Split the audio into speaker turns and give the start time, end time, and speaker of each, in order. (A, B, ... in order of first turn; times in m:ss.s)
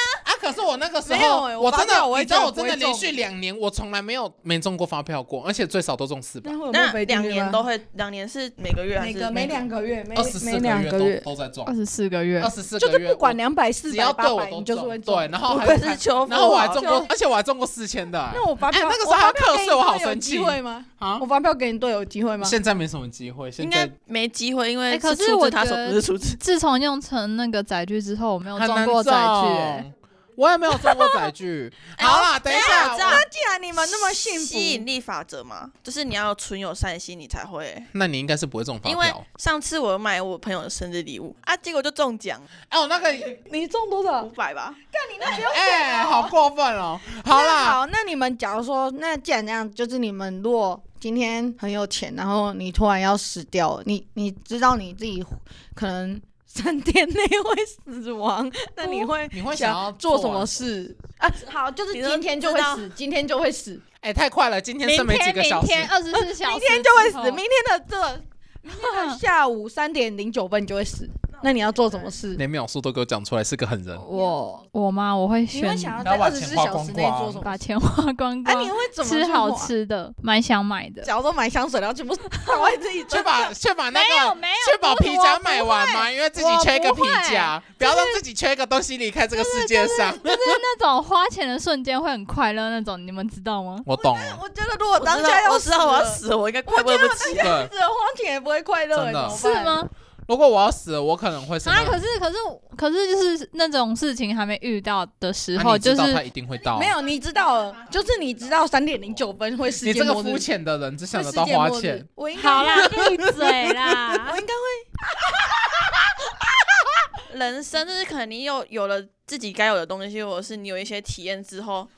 0:00.2-0:06.6 A
0:01.1-0:03.1 B
0:06.4-0:07.6 B
0:06.7-0:09.6 C
0:09.0-0:11.2 B
0:10.2-0:11.7 A
0:11.7-0:12.5 D
0:12.4-0:21.2 A
0:12.8-0:17.1 B
0:15.5-0:17.0 C
0:18.3-0:22.6 B
0:22.4-0:23.9 A
0:23.6-0:26.4 C
0:24.9-0:29.9 D
0:28.6-0:33.2 A
0:32.0-0:37.9 C
0:32.5-0:34.9 B
0:37.9-0:39.2 A
0:38.8-0:42.5 C
0:42.7-0:43.4 A
0:43.5-0:44.3 B
0:44.2-0:44.8 C
0:44.9-0:46.3 B
0:45.3-0:47.8 A
0:47.3-1:03.8 B
0:58.8-0:59.1 D
0:59.3-1:00.7 A
1:01.2-1:02.9 C
1:04.0-1:05.9 A
1:04.8-1:07.4 D
1:06.1-1:12.4 B
1:08.8-1:09.2 D
1:11.3-1:12.1 C
1:12.4-1:14.0 A
1:14.0-1:16.0 D
1:14.0-1:14.4 B
1:15.5-1:17.6 B
1:16.0-1:17.4 A
1:17.3-1:21.1 D
1:18.4-1:19.7 B
1:21.0-1:23.5 B
1:22.3-1:22.8 D
1:23.1-1:30.6 A
1:23.9-1:28.2 D
1:29.3-1:33.9 D
1:33.8-1:34.4 A
1:33.9-1:39.9 B
1:35.0-1:37.6 C
1:37.4-1:37.7 A
1:38.9-1:39.4 A
1:39.3-1:39.9 D
1:40.3-1:42.0 A
1:41.6-1:46.2 D
1:45.6-1:47.0 A
1:46.7-1:50.5 B
1:47.0-1:48.5 C
1:49.8-1:52.1 A
1:51.1-1:53.3 B
1:52.4-1:54.4 D
1:52.8-1:54.1 A
1:54.2-1:57.1 B
1:57.3-2:01.9 C